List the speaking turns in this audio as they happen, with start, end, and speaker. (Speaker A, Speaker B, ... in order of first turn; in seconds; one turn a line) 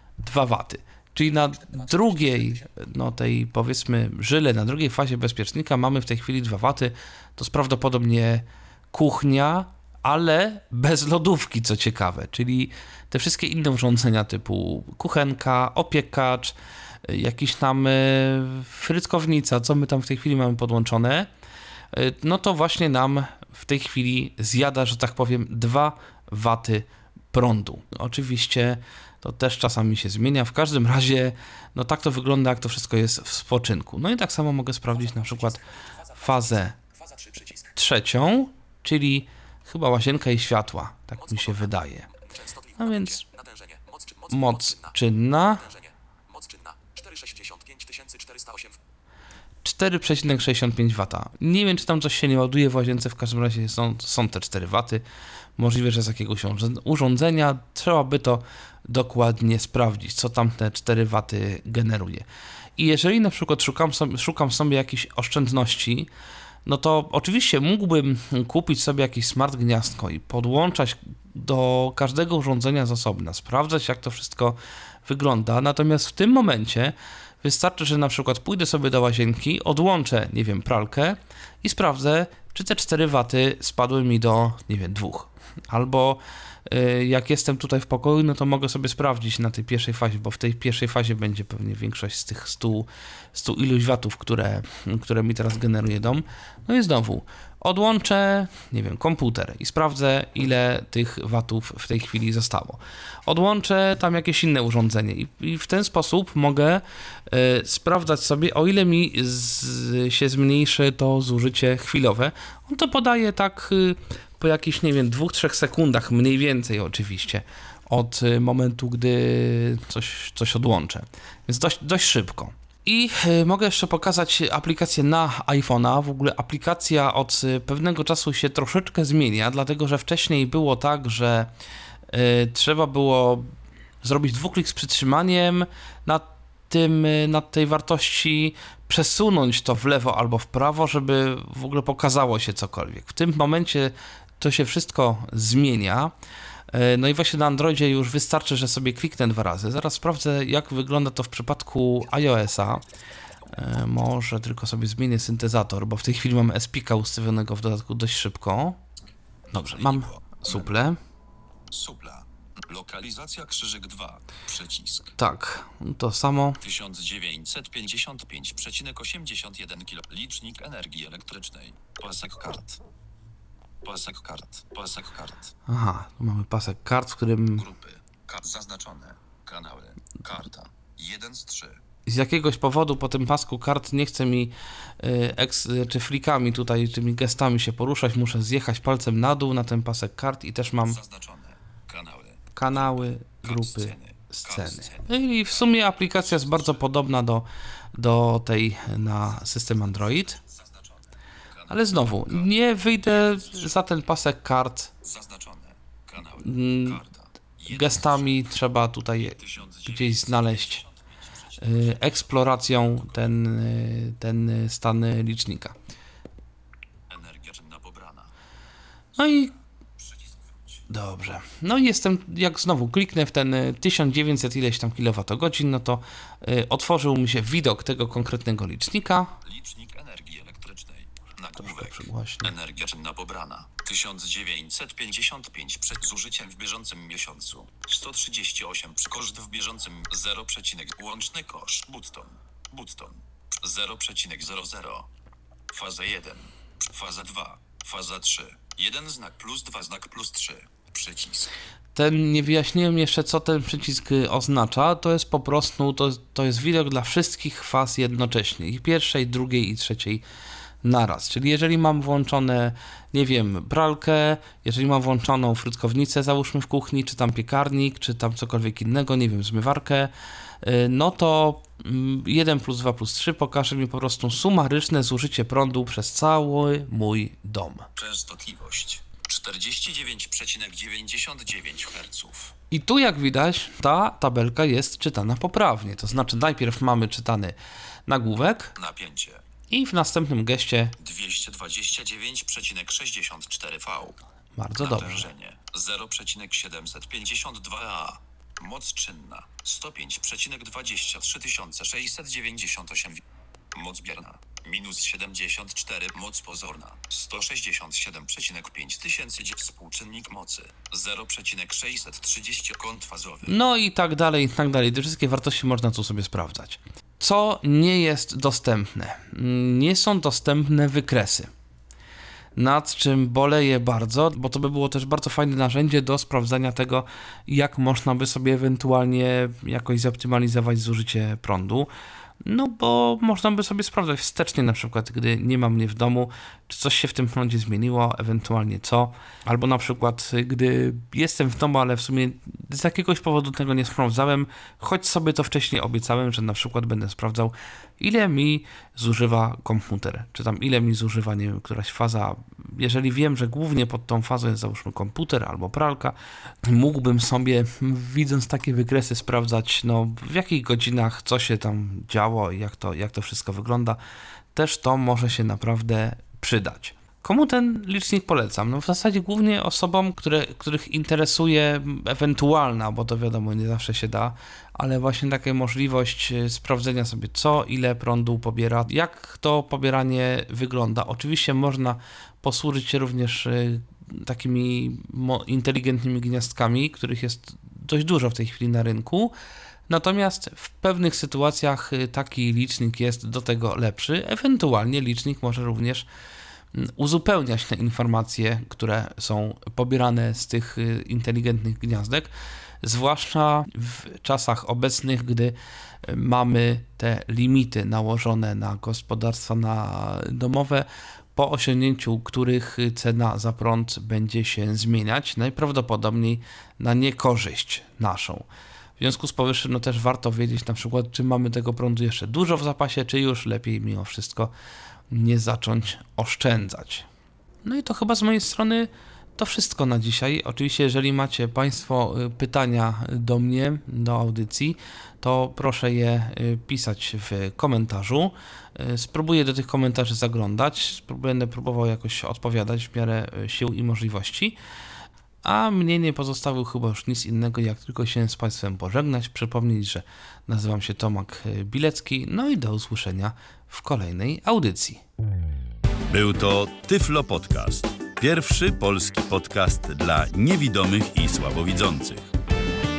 Speaker A: 0.2-21.3
Speaker B: 1.4-2.6
Speaker A: 21.9-35.6
Speaker B: 35.0-37.7
Speaker A: 36.2-36.8
Speaker A: 37.8-42.1
Speaker B: 41.2-45.0
Speaker A: 42.8-43.2
Speaker A: 44.3-45.7
Speaker B: 45.5-48.8
Speaker A: 49.6-55.0
Speaker A: 55.6-62.3
Speaker A: 62.8-66.1
Speaker A: 66.7-131.5
Speaker A: 132.1-133.5
Speaker A: 134.0-146.1
Speaker A: 146.7-152.8
Speaker A: 153.5-158.8
Speaker C: 159.5-160.7
Speaker A: 159.5-161.0
Speaker C: 161.7-165.1
Speaker A: 165.2-166.6
Speaker C: 166.6-172.8
Speaker C: 173.8-175.5
Speaker A: 175.7-177.7
Speaker C: 177.6-181.8
Speaker A: 182.1-191.0
Speaker C: 190.8-196.8
Speaker A: 192.6-200.4
Speaker C: 199.9-203.8
Speaker A: 201.7-204.9
Speaker C: 205.0-208.4
Speaker A: 206.4-207.0
Speaker A: 207.7-210.8
Speaker C: 209.2-213.2
Speaker A: 211.6-215.8
Speaker C: 217.1-218.3
Speaker A: 219.2-219.5
Speaker C: 220.0-220.8
Speaker A: 220.9-229.3
Speaker C: 229.4-245.1
Speaker A: 231.6-232.5
Speaker C: 245.7-251.5
Speaker A: 251.9-260.2
Speaker A: 260.8-270.1
Speaker A: 270.6-277.9
Speaker C: 278.0-282.5
Speaker A: 282.7-288.8
Speaker C: 288.8-289.4
Speaker A: 289.7-290.9
Speaker C: 291.0-294.2
Speaker A: 294.6-295.3
Speaker C: 294.8-303.2
Speaker C: 303.7-313.5
Speaker A: 313.5-321.5
Speaker A: 322.6-331.9
Speaker A: 332.4-364.0
Speaker A: 364.5-389.3
Speaker A: 389.9-396.1
Speaker A: 396.7-402.3
Speaker A: 402.8-418.5
Speaker A: 419.0-424.5
Speaker A: 425.1-427.1
Speaker A: 427.6-444.6
Speaker A: 445.4-455.0
Speaker D: 456.1-462.3